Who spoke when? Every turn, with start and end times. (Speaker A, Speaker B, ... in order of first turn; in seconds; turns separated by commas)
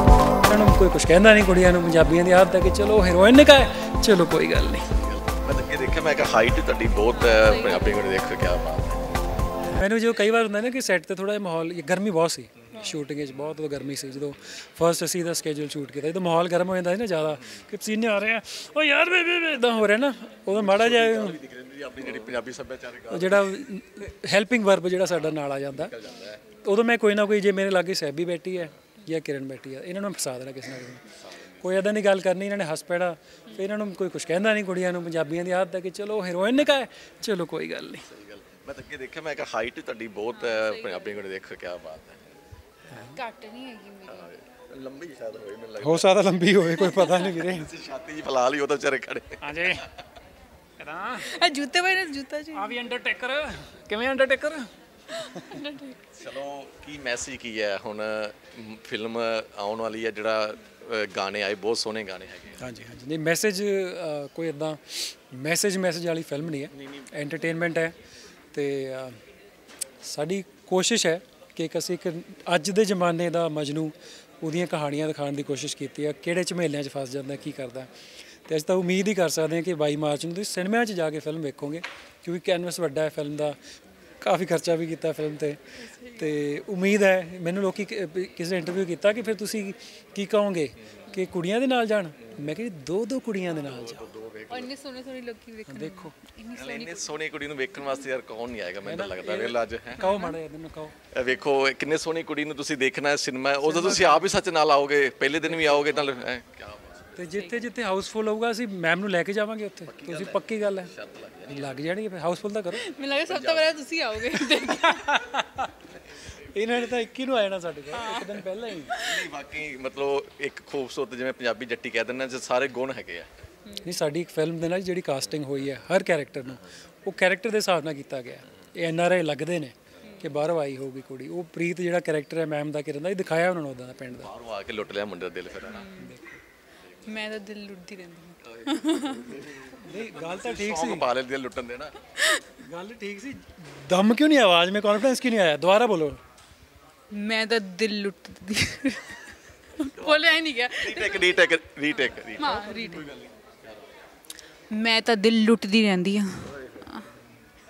Speaker A: 0.4-5.0, Speaker B: 5.0-9.1, Speaker C: 7.1-8.0, Speaker A: 9.7-21.4, Speaker B: 20.5-23.6, Speaker A: 23.1-26.0, Speaker B: 25.2-26.4, Speaker A: 26.5-38.1, Speaker B: 31.3-31.6, Speaker B: 38.1-42.3, Speaker C: 40.3-41.2, Speaker A: 42.9-43.2, Speaker C: 43.0-44.3, Speaker B: 44.1-46.2, Speaker A: 45.8-47.7, Speaker C: 46.9-47.3, Speaker B: 47.2-49.9, Speaker A: 49.4-49.9, Speaker A: 50.8-51.4, Speaker C: 51.2-52.8, Speaker A: 52.5-55.7, Speaker C: 55.2-56.0, Speaker B: 56.1-62.8, Speaker A: 62.6-68.0, Speaker A: 68.5-69.2, Speaker A: 70.0-77.9, Speaker A: 78.5-83.6, Speaker A: 84.2-94.0, Speaker C: 85.8-86.3, Speaker B: 93.6-94.7, Speaker C: 94.5-97.1, Speaker A: 95.7-96.1, Speaker B: 96.5-100.1, Speaker A: 98.8-101.0, Speaker C: 100.0-100.4, Speaker B: 101.1-107.2, Speaker A: 103.6-104.4, Speaker A: 105.5-106.3, Speaker A: 107.2-110.9, Speaker C: 107.4-107.6, Speaker B: 109.9-111.8, Speaker A: 111.5-112.9, Speaker C: 112.7-115.1, Speaker B: 113.3-113.7, Speaker A: 114.5-115.7, Speaker A: 116.4-119.0, Speaker C: 118.0-119.3, Speaker B: 118.9-123.3, Speaker A: 123.8-134.3, Speaker B: 134.2-135.9, Speaker C: 135.7-136.2, Speaker A: 136.0-136.4, Speaker C: 137.0-139.4, Speaker B: 138.6-142.0, Speaker A: 139.8-141.1, Speaker C: 142.2-142.5, Speaker A: 142.6-146.2, Speaker C: 147.1-151.4, Speaker B: 150.0-153.8, Speaker C: 152.2-153.1, Speaker C: 154.7-157.1